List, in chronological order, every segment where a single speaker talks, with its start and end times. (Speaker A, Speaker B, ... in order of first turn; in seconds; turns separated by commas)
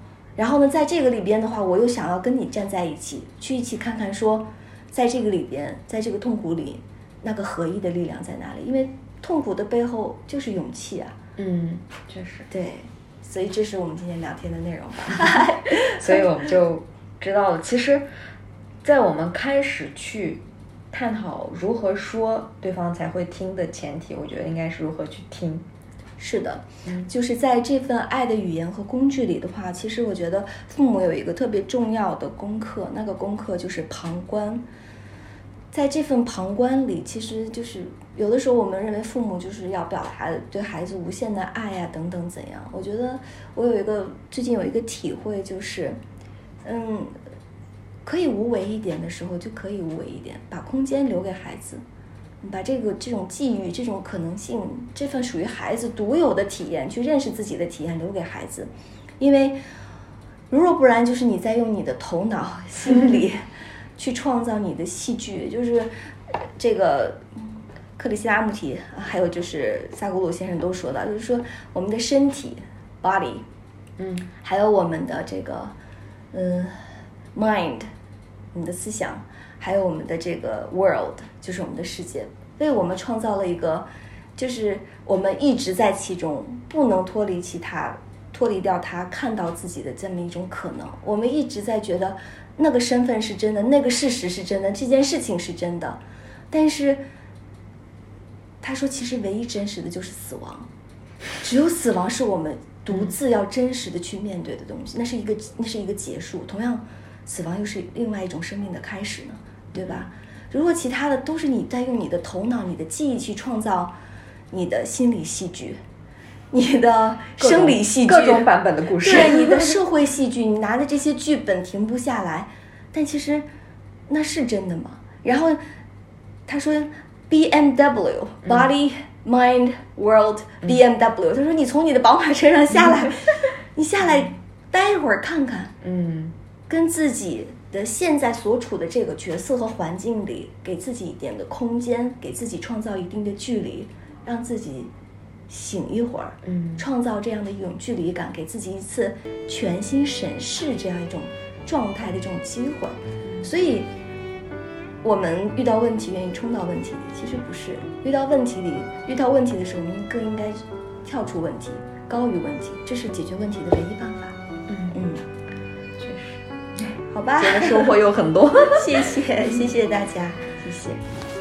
Speaker A: 0.4-11.2, Speaker B: 11.4-12.5, Speaker A: 12.5-16.3, Speaker B: 15.2-18.1, Speaker B: 18.8-25.7, Speaker A: 26.2-34.6, Speaker A: 35.7-46.0, Speaker A: 46.6-47.1, Speaker A: 48.0-51.8, Speaker A: 52.4-59.6, Speaker A: 60.5-63.5, Speaker A: 64.0-73.5, Speaker B: 74.0-74.3, Speaker A: 74.4-75.7, Speaker A: 76.3-77.9, Speaker A: 78.5-96.0, Speaker A: 96.5-97.0, Speaker A: 98.6-100.7, Speaker A: 101.4-113.9, Speaker B: 109.7-110.1, Speaker A: 114.5-115.8, Speaker A: 116.5-118.5, Speaker B: 117.4-119.8, Speaker A: 119.0-123.5, Speaker A: 124.1-125.6, Speaker A: 126.5-135.7, Speaker B: 135.8-136.3, Speaker A: 136.7-144.9, Speaker A: 145.5-153.9, Speaker B: 146.4-146.9, Speaker A: 155.0-164.4, Speaker B: 164.7-165.0, Speaker A: 164.9-165.2, Speaker B: 166.0-166.5, Speaker A: 166.9-167.9, Speaker B: 167.4-169.6, Speaker A: 168.7-171.0